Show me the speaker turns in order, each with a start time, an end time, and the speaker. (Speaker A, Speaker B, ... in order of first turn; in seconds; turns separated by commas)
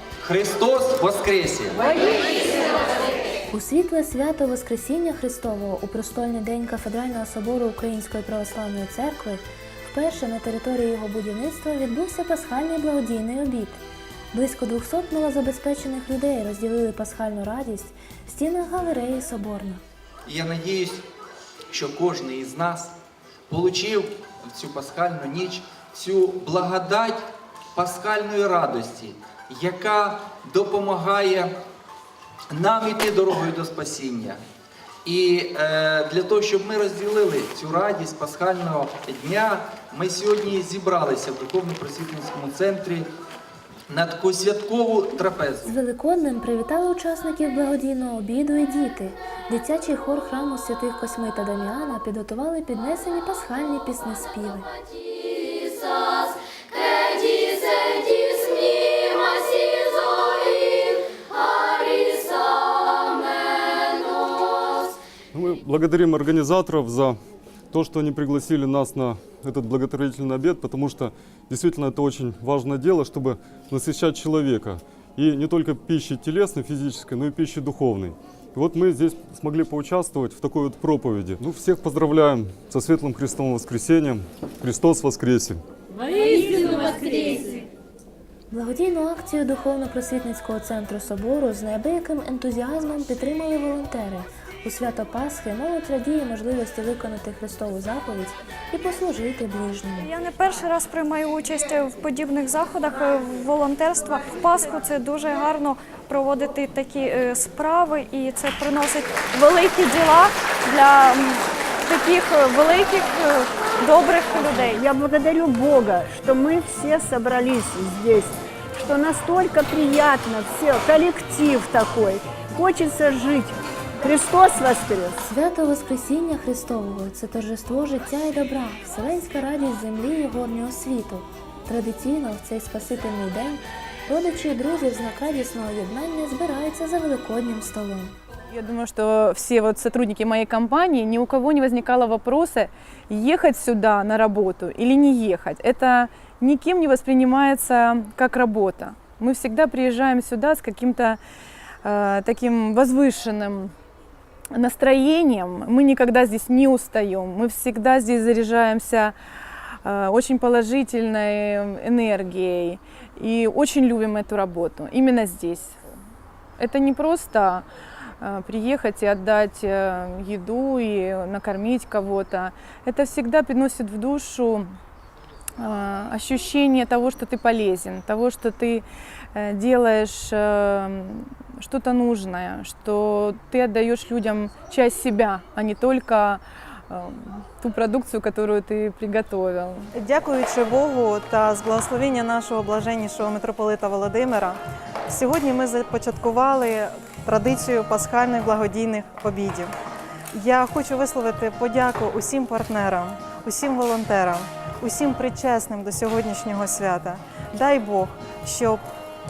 Speaker A: 0.2-1.9, Speaker B: 3.5-13.8, Speaker B: 14.3-19.8, Speaker A: 20.2-21.0, Speaker A: 21.7-22.9, Speaker A: 23.5-27.2, Speaker A: 27.8-31.5, Speaker A: 32.5-34.4, Speaker A: 35.0-43.1, Speaker A: 43.9-45.7, Speaker B: 45.6-54.7, Speaker C: 58.2-59.7, Speaker D: 65.3-67.2, Speaker D: 67.7-85.6, Speaker D: 86.3-87.2, Speaker B: 88.5-100.1, Speaker C: 100.0-114.2, Speaker E: 114.2-125.2, Speaker B: 125.2-138.1, Speaker F: 138.5-151.2, Speaker F: 151.8-153.7, Speaker F: 154.5-159.2, Speaker F: 159.8-165.8, Speaker F: 166.6-167.7, Speaker F: 168.2-174.7, Speaker F: 175.6-189.9, Speaker G: 189.9-199.7, Speaker G: 200.3-208.8